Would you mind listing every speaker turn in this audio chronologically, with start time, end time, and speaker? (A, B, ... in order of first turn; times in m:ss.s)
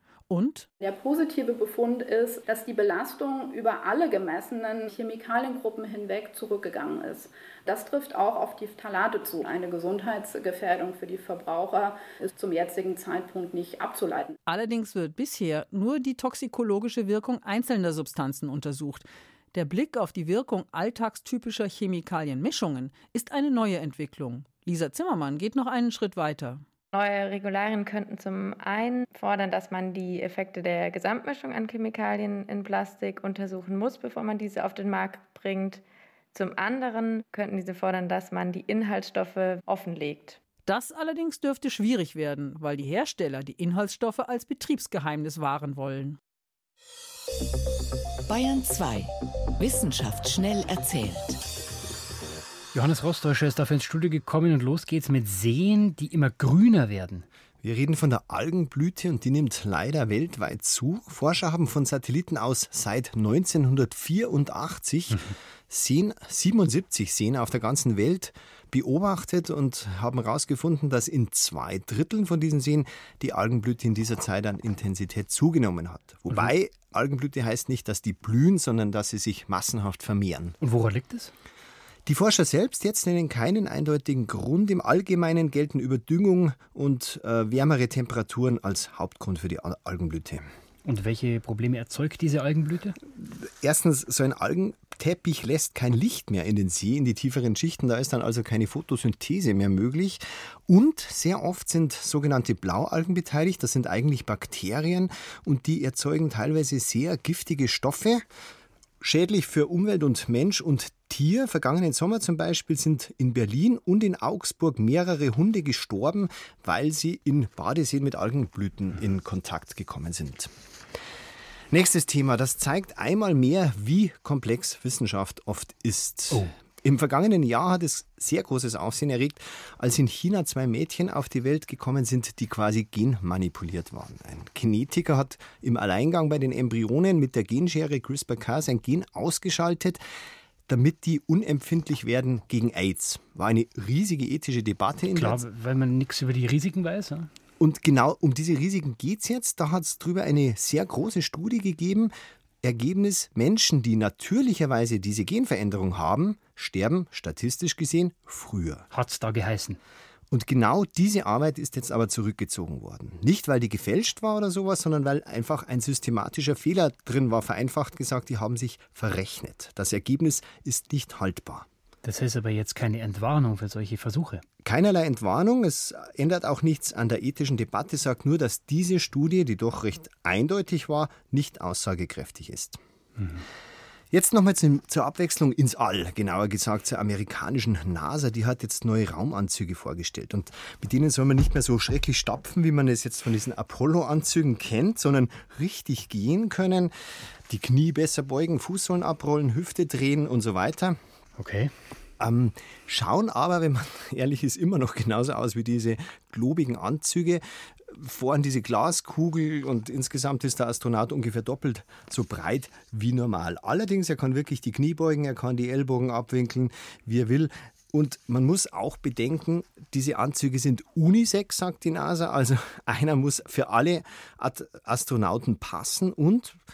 0:00.3-0:00.7 A
0:00.8-0:14.3 B
0:14.5-0:26.6 A
0:26.9-0:35.8 C
0:36.3-0:40.4 C
0:40.7-0:46.2 A
0:48.3-0:51.4 D
0:52.7-0:57.3 E
0:57.6-1:20.6 F
1:20.6-1:21.3 E
1:22.1-1:30.5 F
1:30.8-1:33.0 E
1:33.2-1:48.2 F
1:49.0-2:00.5 F
2:01.7-2:20.0 F
2:20.7-2:25.4 F
2:25.1-2:27.3 E
2:27.6-2:38.9 F
2:38.9-2:39.8 E
2:40.3-2:51.7 F
2:52.0-2:54.4 E
2:54.6-3:02.8 F
3:04.1-3:16.9 F
3:17.5-3:21.0 F
3:21.4-3:21.7 E
3:22.2-3:46.6 F